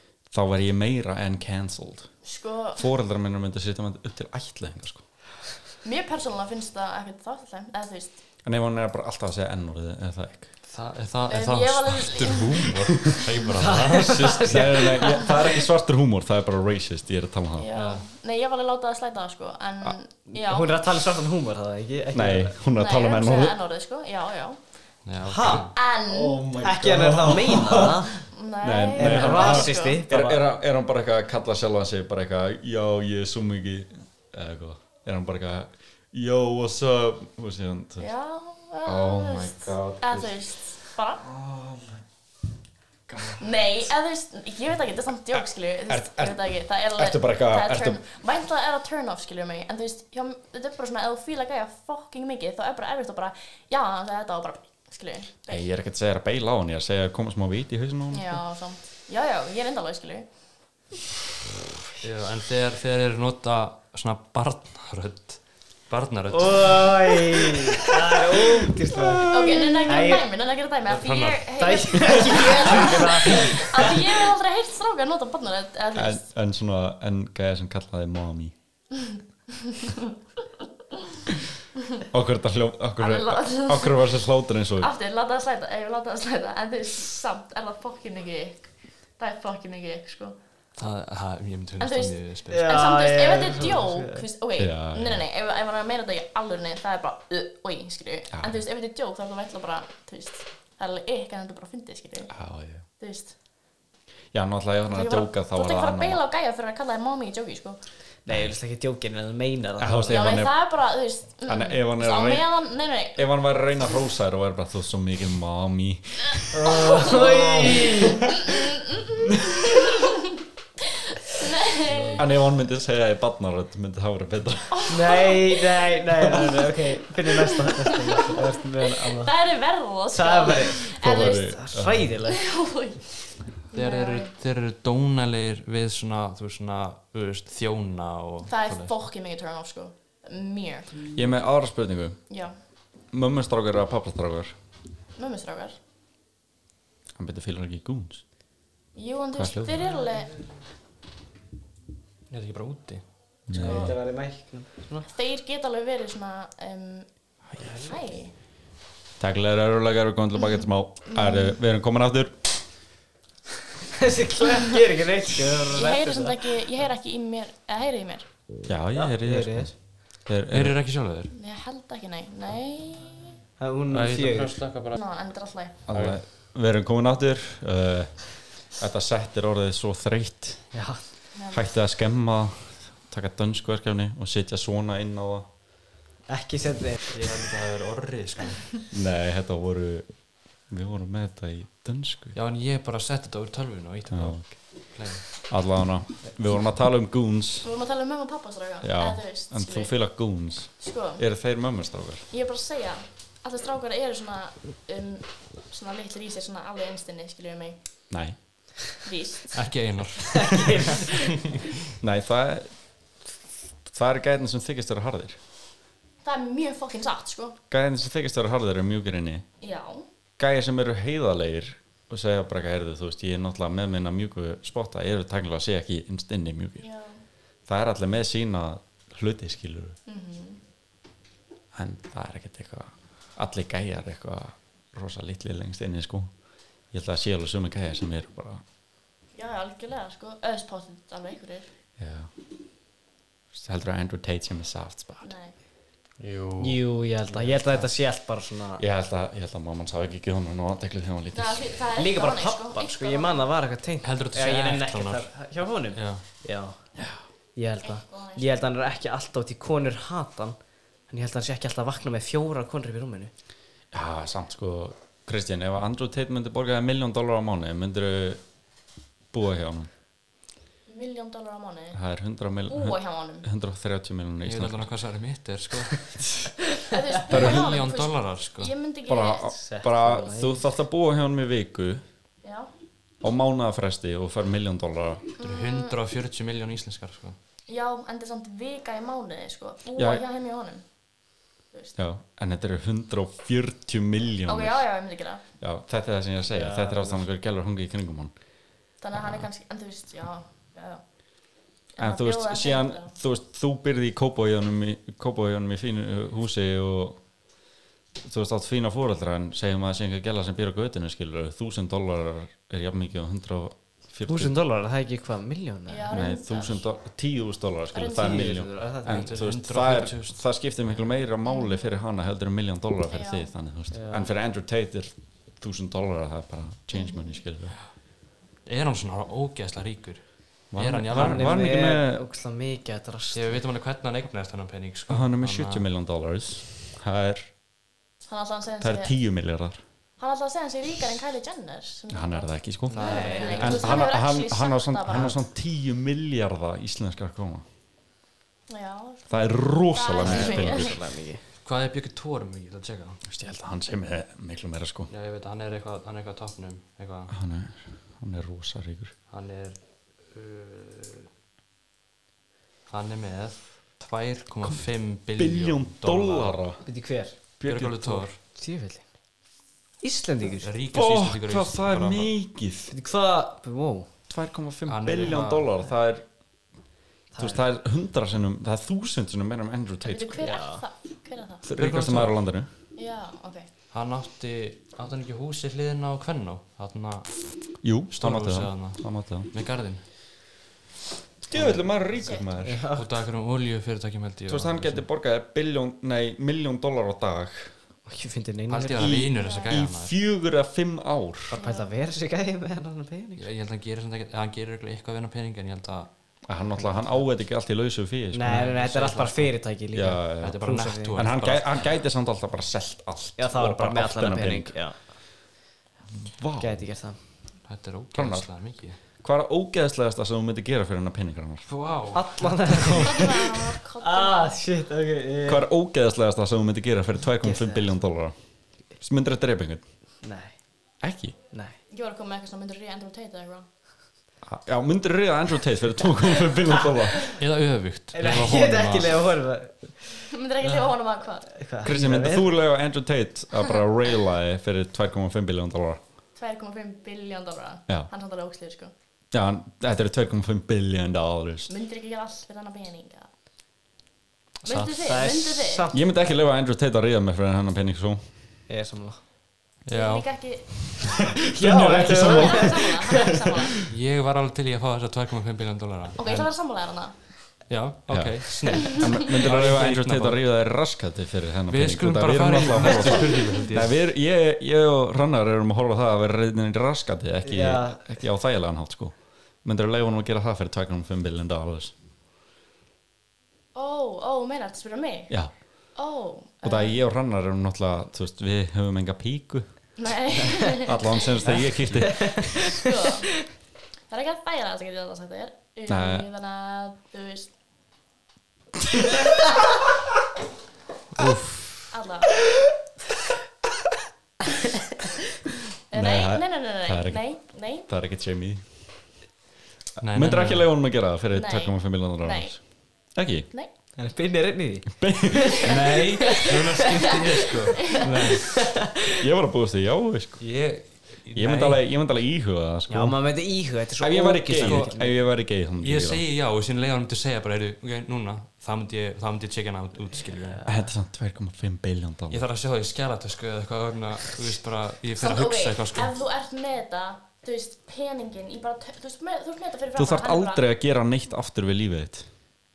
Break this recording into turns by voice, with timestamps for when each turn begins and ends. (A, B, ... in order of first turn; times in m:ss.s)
0:00.3-0:02.1 A
0:02.2-0:02.8 B
0:02.8-0:05.0 A
0:05.8-0:08.2 B
0:08.4-0:10.5 A
0:10.6-0:14.3 C
0:11.3-0:12.6 B
0:13.6-0:15.3 D
0:14.1-0:17.7 A
0:17.6-0:20.7 B
0:17.7-0:18.0 C
0:20.3-0:22.6 D
0:22.1-0:23.6 A
0:22.8-0:24.6 B
0:25.0-0:25.8 C
0:25.2-0:25.7 D
0:25.7-0:26.5 B
0:26.0-0:38.1 A
0:26.6-0:28.3 D
0:28.3-0:30.0 B
0:29.0-0:30.5 D
0:38.0-0:41.2 B
0:38.8-0:42.0 A
0:43.1-0:43.6 A
0:43.4-0:55.6 B
0:45.3-0:48.0 A
0:55.5-0:58.4 A
0:58.1-1:00.3 B
1:02.0-1:07.2 C
1:06.3-1:10.2 D
1:09.1-1:09.6 A
1:09.3-1:16.2 B
1:10.8-1:11.5 C
1:11.6-1:13.9 D
1:15.9-1:18.5 A
1:19.7-1:19.9 B
1:22.1-1:24.9 A
1:23.0-1:24.1 B
1:24.8-1:28.6 B
1:29.2-1:30.4 B
1:30.8-1:32.7 C
1:31.8-1:42.3 B
1:32.5-1:34.2 D
1:34.6-1:35.2 A
1:38.3-1:38.6 A
1:42.3-1:42.8 A
1:43.0-1:43.3 B
1:44.3-1:46.2 A
1:44.9-1:47.8 B
1:48.2-1:50.1 D
1:48.3-1:48.5 A
1:49.8-1:50.6 A
1:50.1-1:53.2 B
1:51.4-1:52.5 A
1:53.1-1:58.5 A
1:56.5-1:58.2 D
1:56.7-1:57.2 B
1:58.4-2:00.3 B
2:01.3-2:02.3 B
2:02.1-2:04.9 A
2:04.7-2:05.6 B
2:04.9-2:09.3 D
2:07.2-2:08.4 B
2:08.9-2:11.6 B
2:10.1-2:12.4 D
2:10.9-2:12.1 A
2:12.2-2:14.3 B
2:13.7-2:18.9 C
2:18.4-2:21.0 B
2:21.1-2:22.2 A
2:22.3-2:22.5 B
2:23.1-2:24.6 A
2:25.2-2:25.8 B
2:27.2-2:28.2 A
2:28.9-2:30.4 B
2:29.3-2:29.8 A
2:32.3-2:33.0 C
2:33.5-2:33.9 A
2:33.5-2:35.1 D
2:33.6-2:34.0 B
2:35.1-2:37.1 B
2:37.6-2:37.9 C
2:37.8-2:38.3 B
2:39.2-2:42.4 A
2:41.1-2:41.5 B
2:43.9-2:46.6 D
2:45.7-2:48.3 B
2:48.7-2:50.8 A
2:48.9-2:49.7 D
2:50.5-2:51.3 C
2:51.3-2:53.4 B
2:53.6-2:54.6 D
2:53.9-2:54.9 C
2:54.9-2:55.8 B
2:55.9-3:00.8 A
2:55.9-2:56.2 C
3:00.7-3:01.0 D
3:01.3-3:01.7 B
3:01.5-3:05.5 A
3:06.3-3:07.2 D
3:07.1-3:08.7 C
3:08.9-3:10.1 A
3:10.7-3:12.4 A
3:12.3-3:15.3 C
3:14.1-3:14.8 A
3:15.4-3:17.7 A
3:17.6-3:19.9 B
3:18.8-3:22.3 A
3:20.8-3:21.2 B
3:22.3-3:27.8 B
3:28.1-3:28.4 A
3:29.0-3:29.6 B
3:29.5-3:31.6 C
3:30.4-3:31.1 D
3:32.0-3:33.2 A
3:33.8-3:35.4 A
3:36.2-3:37.6 B
3:37.7-3:39.4 A
3:39.6-3:40.0 B
3:40.4-3:46.9 A
3:46.8-3:47.2 B
3:47.7-3:50.0 A
3:50.1-3:50.6 B
3:51.7-3:56.3 A
3:56.9-3:58.6 A
3:59.3-4:01.7 B
4:02.0-4:02.3 A
4:03.5-4:05.3 A
4:05.2-4:05.5 B
4:06.2-4:06.8 C
4:06.6-4:08.8 D
4:07.4-4:07.8 C
4:08.8-4:11.8 A
4:11.3-4:13.5 B
4:11.9-4:16.8 D
4:14.0-4:16.2 C
4:17.6-4:20.6 D
4:17.8-4:18.5 B
4:21.1-4:23.3 D
4:23.9-4:28.4 A
4:29.3-4:29.9 A
4:30.9-4:32.0 B
4:31.9-4:34.9 A
4:32.7-4:33.4 B
4:34.4-4:36.1 C
4:36.9-4:39.5 B
4:37.3-4:38.7 C
4:37.3-4:37.8 A
4:39.0-4:42.0 A
4:39.6-4:40.6 D
4:42.4-4:42.7 B
4:43.2-4:45.2 A
4:45.4-4:45.9 B
4:45.4-4:47.4 C
4:47.7-4:50.8 B
4:50.0-4:50.2 A
4:52.0-4:54.8 A
4:54.4-4:55.4 B
4:55.6-4:58.3 A
4:56.5-4:57.2 D
4:59.0-5:03.1 B
5:02.0-5:07.2 A
5:08.2-5:14.5 A
5:14.2-5:16.1 D
5:15.9-5:16.8 B
5:16.1-5:27.8 A
5:17.9-5:18.5 B
5:18.2-5:19.4 D
5:19.0-5:20.4 C
5:21.4-5:21.8 B
5:23.1-5:23.5 B
5:23.9-5:24.3 D
5:26.9-5:27.3 B
5:28.6-5:31.6 C
5:30.7-5:32.2 A
5:31.1-5:33.6 D
5:33.3-5:35.8 C
5:35.1-5:37.5 A
5:38.3-5:39.1 B
5:38.8-5:39.8 A
5:40.2-5:45.4 B
5:42.1-5:47.6 A
5:42.9-5:44.1 C
5:43.0-5:43.8 D
5:48.7-5:50.9 B
5:49.3-5:51.0 A
5:50.2-5:51.4 D
5:51.6-5:53.2 C
5:53.2-5:55.1 A
5:55.1-5:57.3 C
5:57.3-5:59.1 A
5:59.3-6:01.3 C
6:02.9-6:06.6 C
6:05.3-6:06.8 A
6:06.8-6:07.4 D
6:07.6-6:08.3 A
6:07.6-6:08.4 C
6:08.5-6:09.1 D
6:10.0-6:10.7 D
6:10.6-6:12.3 C
6:10.9-6:12.9 A
6:12.9-6:14.1 D
6:14.3-6:16.2 A
6:14.8-6:15.7 C
6:17.3-6:17.6 D
6:17.4-6:20.5 A
6:20.0-6:21.6 B
6:20.4-6:20.8 D
6:21.6-6:22.7 A
6:21.7-6:22.4 C
6:23.0-6:23.7 B
6:23.9-6:27.5 C
6:27.8-6:29.5 A
6:28.1-6:30.0 C
6:31.4-6:32.8 A
6:31.5-6:31.8 C
6:32.2-6:32.4 B
6:32.6-6:33.2 D
6:32.9-6:35.0 C
6:34.5-6:37.7 A
6:38.0-6:39.2 D
6:38.7-6:40.1 C
6:39.0-6:41.6 A
6:39.4-6:39.7 B
6:41.5-6:43.5 D
6:41.6-6:41.9 B
6:43.4-6:46.1 C
6:46.4-6:48.6 A
6:46.8-6:47.2 D
6:48.3-6:51.2 D
6:48.4-6:49.6 C
6:49.9-6:50.6 A
6:50.4-6:51.9 C
6:51.1-6:54.9 A
6:53.4-6:55.0 D
6:56.2-6:56.7 A
6:56.6-6:57.2 D
6:57.7-6:59.0 C
6:58.1-6:58.5 A
6:59.2-7:01.7 A
7:01.7-7:03.2 C
7:02.1-7:03.2 D
7:03.0-7:04.6 B
7:04.0-7:05.7 D
7:05.4-7:08.3 A
7:07.4-7:07.9 D
7:09.0-7:09.8 A
7:10.2-7:10.6 D
7:11.0-7:11.4 A
7:11.5-7:11.8 D
7:11.9-7:13.7 B
7:14.4-7:17.3 A
7:17.4-7:19.3 C
7:18.1-7:20.9 D
7:20.3-7:21.5 B
7:21.4-7:22.5 D
7:21.8-7:26.0 A
7:26.4-7:28.9 B
7:29.3-7:31.7 A
7:31.7-7:33.3 B
7:34.6-7:35.2 C
7:34.6-7:35.8 B
7:35.0-7:36.1 D
7:35.9-7:38.3 A
7:38.7-7:39.2 D
7:39.8-7:40.3 C
7:39.9-7:41.2 B
7:41.0-7:43.2 A
7:41.5-7:43.2 D
7:42.0-7:43.7 B
7:43.9-7:46.5 C
7:46.2-7:47.1 B
7:47.7-7:50.4 C
7:48.1-8:01.9 A
7:51.7-7:53.9 C
7:57.4-7:58.2 D
8:03.7-8:05.4 B
8:05.3-8:05.5 A
8:05.9-8:07.0 B
8:06.6-8:09.7 A
8:10.0-8:11.4 B
8:10.8-8:12.8 A
8:12.0-8:12.6 D
8:12.7-8:13.5 B
8:14.1-8:17.5 B
8:15.9-8:16.3 A
8:21.1-8:21.9 C
8:21.9-8:22.4 B
8:25.9-8:27.9 B
8:25.9-8:28.6 A
8:30.0-8:30.7 C
8:30.1-8:33.5 A
8:31.3-8:32.6 B
8:34.0-8:35.6 D
8:35.0-8:35.7 A
8:35.6-8:38.6 C
8:38.4-8:38.9 D
8:39.2-8:40.5 A
8:40.4-8:41.8 C
8:41.3-8:43.3 A
8:42.9-8:45.2 D
8:44.0-8:46.2 A
8:44.6-8:45.0 C
8:45.8-8:50.6 C
8:50.4-8:50.8 D
8:50.6-8:52.4 A
8:52.3-8:56.1 C
8:55.2-9:00.6 B
9:00.0-9:02.3 A